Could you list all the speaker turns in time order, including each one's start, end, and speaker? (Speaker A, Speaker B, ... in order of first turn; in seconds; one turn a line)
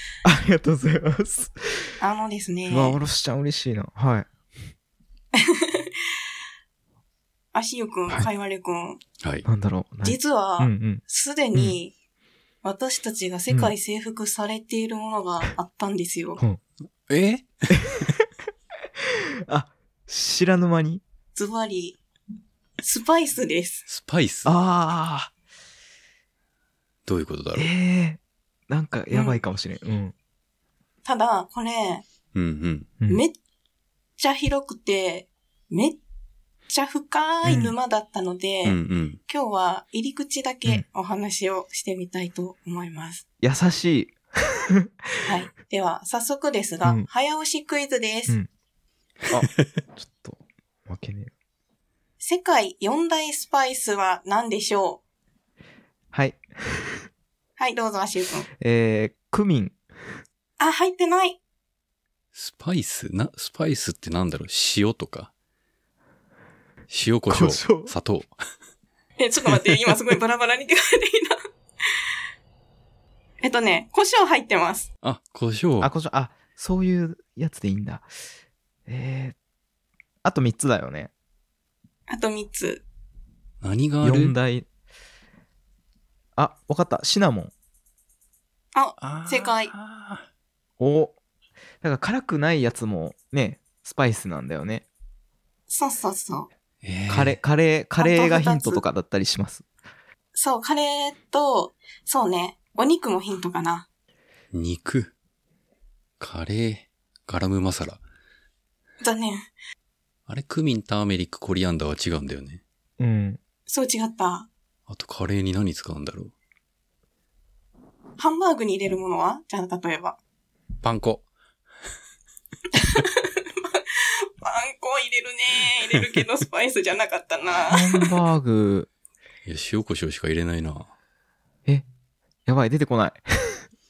Speaker A: 0.2-2.0
Speaker B: 2.0-3.0
Speaker A: 2.7-4.3
Speaker B: 5.4-6.0
Speaker B: 7.5-9.0
Speaker A: 9.4-11.0
Speaker B: 10.0-11.9
Speaker B: 12.6-16.4
Speaker C: 17.1-18.1
Speaker A: 19.5-21.0
Speaker B: 21.4-22.0
Speaker B: 22.8-23.9
Speaker C: 23.9-24.5
Speaker A: 24.4-25.3
Speaker C: 27.1-27.7
Speaker A: 27.6-30.1
Speaker B: 29.1-29.4
Speaker B: 31.1-32.0
Speaker C: 32.4-32.9
Speaker B: 33.1-33.3
Speaker B: 34.2-36.0
Speaker B: 36.7-43.2
Speaker A: 37.4-37.8
Speaker C: 38.6-39.2
Speaker A: 43.4-45.1
Speaker B: 45.2-48.4
Speaker A: 49.3-51.3
Speaker B: 52.2-55.0
Speaker A: 56.1-57.0
Speaker B: 57.6-58.5
Speaker A: 58.6-59.8
Speaker B: 60.6-61.4
Speaker C: 62.3-65.3
Speaker C: 66.9-68.3
Speaker A: 67.3-67.9
Speaker B: 69.2-71.4
Speaker A: 69.5-69.9
Speaker B: 73.4-74.9
Speaker C: 75.0-75.9
Speaker A: 75.8-78.1
Speaker A: 78.9-79.3
Speaker A: 80.2-81.1
Speaker B: 82.1-82.8
Speaker C: 83.6-84.3
Speaker A: 84.0-84.7
Speaker A: 86.4-87.5
Speaker B: 88.8-89.7
Speaker C: 89.0-90.3
Speaker A: 90.8-91.2
Speaker A: 91.8-94.8
Speaker B: 95.7-96.5
Speaker C: 96.8-97.4
Speaker A: 97.1-99.7
Speaker B: 98.0-98.8
Speaker B: 100.3-103.9
Speaker C: 104.5-105.1
Speaker C: 106.2-108.0
Speaker B: 109.0-109.5
Speaker C: 110.3-112.6
Speaker A: 113.0-113.4
Speaker B: 113.7-114.5
Speaker C: 114.9-116.3
Speaker B: 118.2-120.2
Speaker C: 120.8-121.3
Speaker B: 122.8-127.9
Speaker A: 127.6-128.9
Speaker C: 129.5-130.9
Speaker A: 132.5-133.6